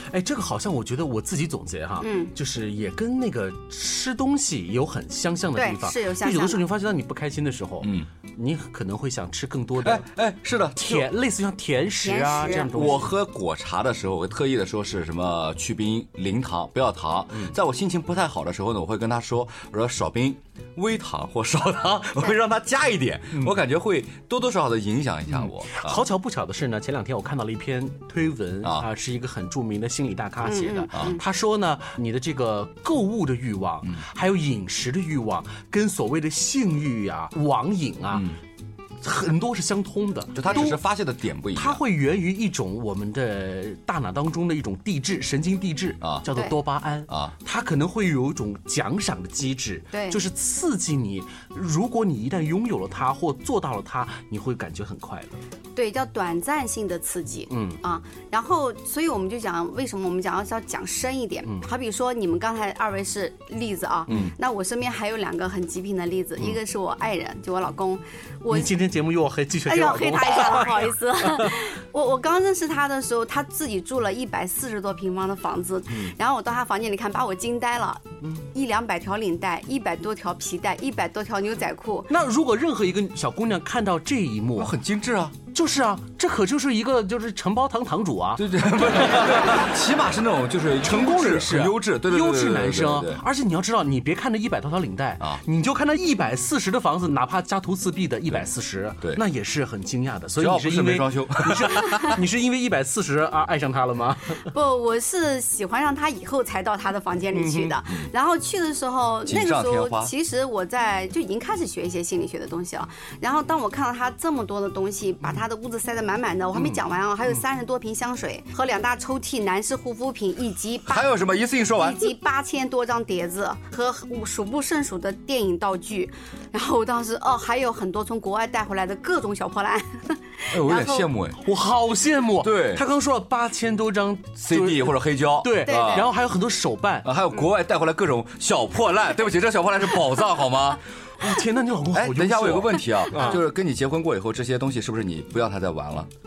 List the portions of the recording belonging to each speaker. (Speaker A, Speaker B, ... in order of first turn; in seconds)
Speaker A: 0.1-10.1, 10.8-13.1, 25.3-38.3, 39.0-40.8, 41.5-55.4, 57.5-57.8, 68.5-71.5, 82.1-84.8, 85.5-89.7, 90.8-104.5, 107.3-107.8, 116.5-116.8, 131.4-137.1, 141.2-143.4
Speaker B: 2.0-2.3, 5.6-6.6, 12.0-13.0, 30.4-31.2, 49.9-50.2, 55.8-68.7, 69.7-82.1, 104.5-121.1, 121.7-131.1, 135.7-136.1
Speaker C: 7.8-8.1, 9.8-11.1, 12.7-26.0, 38.1-38.4, 40.3-41.8, 47.1-47.4, 84.6-85.4, 88.4-93.2, 100.4-102.2, 109.3-110.1, 120.9-122.1, 130.5-131.4, 132.4-132.8, 134.4-136.1, 137.0-140.8, 141.9-146.1